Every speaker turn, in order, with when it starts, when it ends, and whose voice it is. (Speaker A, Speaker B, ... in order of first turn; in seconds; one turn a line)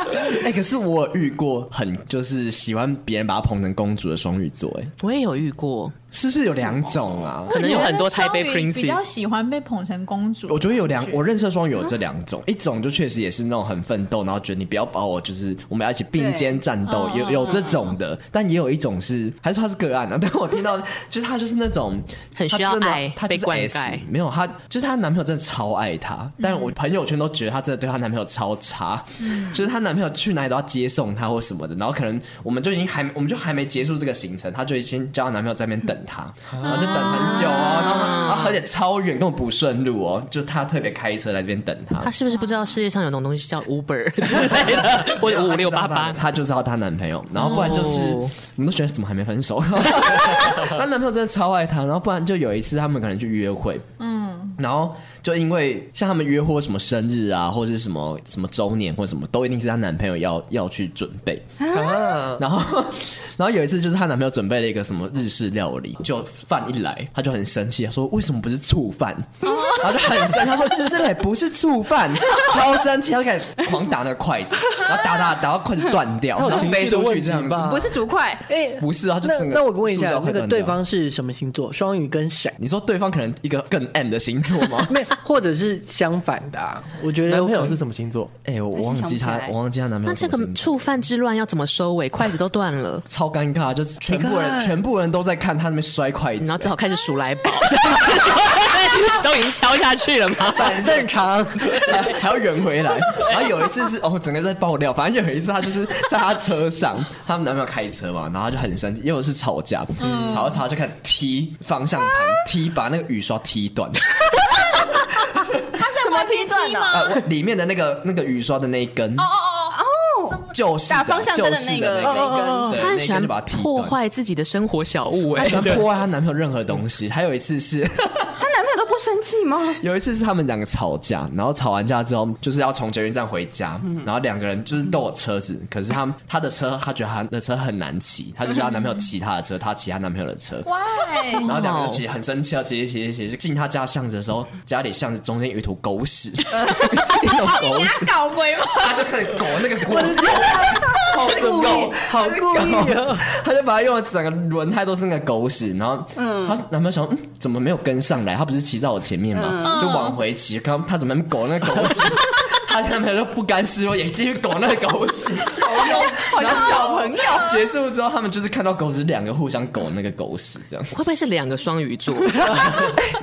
Speaker A: 0.2-4.9
Speaker B: 5.0-5.9
Speaker A: 6.1-7.9
Speaker C: 6.7-7.3
Speaker D: 7.5-11.2
Speaker B: 7.5-9.0
Speaker A: 10.5-42.1
Speaker C: 16.1-16.6
Speaker D: 16.9-17.8
Speaker B: 22.4-24.0
Speaker D: 26.4-26.7
Speaker D: 29.2-29.6
Speaker B: 36.9-38.6
Speaker B: 42.0-46.2
Speaker A: 44.3-53.9
Speaker B: 47.4-48.3
Speaker D: 47.4-47.8
Speaker D: 54.0-54.5
Speaker A: 54.6-61.5
Speaker C: 61.6-62.2
Speaker E: 61.7-62.4
Speaker A: 62.3-77.9
Speaker C: 69.4-70.1
Speaker E: 76.3-77.9
Speaker C: 77.6-78.4
Speaker F: 78.5-82.6
Speaker A: 78.8-80.8
Speaker A: 82.6-85.0
Speaker F: 84.8-87.8
Speaker E: 87.2-88.3
Speaker A: 88.4-90.9
Speaker C: 88.7-89.5
Speaker B: 90.0-93.0
Speaker A: 93.1-96.7
Speaker F: 94.0-94.8
Speaker B: 96.4-100.8
Speaker F: 100.5-102.1
Speaker A: 101.8-114.8
Speaker D: 110.0-110.6
Speaker D: 115.8-117.2
Speaker C: 115.8-117.2
Speaker A: 116.9-119.3
Speaker D: 119.2-120.5
Speaker C: 119.7-122.7
Speaker A: 120.5-124.0
Speaker F: 122.0-122.8
Speaker B: 122.7-125.8
Speaker A: 125.3-128.3
Speaker C: 128.4-129.8
Speaker A: 129.8-140.7
Speaker D: 140.6-141.5
Speaker A: 141.4-148.1
Speaker B: 141.4-142.0
Speaker D: 146.7-149.1
Speaker A: 148.7-170.9
Speaker F: 149.8-153.2
Speaker C: 156.2-156.6
Speaker C: 159.3-160.1
Speaker D: 159.6-160.2
Speaker C: 165.5-167.6
Speaker B: 170.9-172.7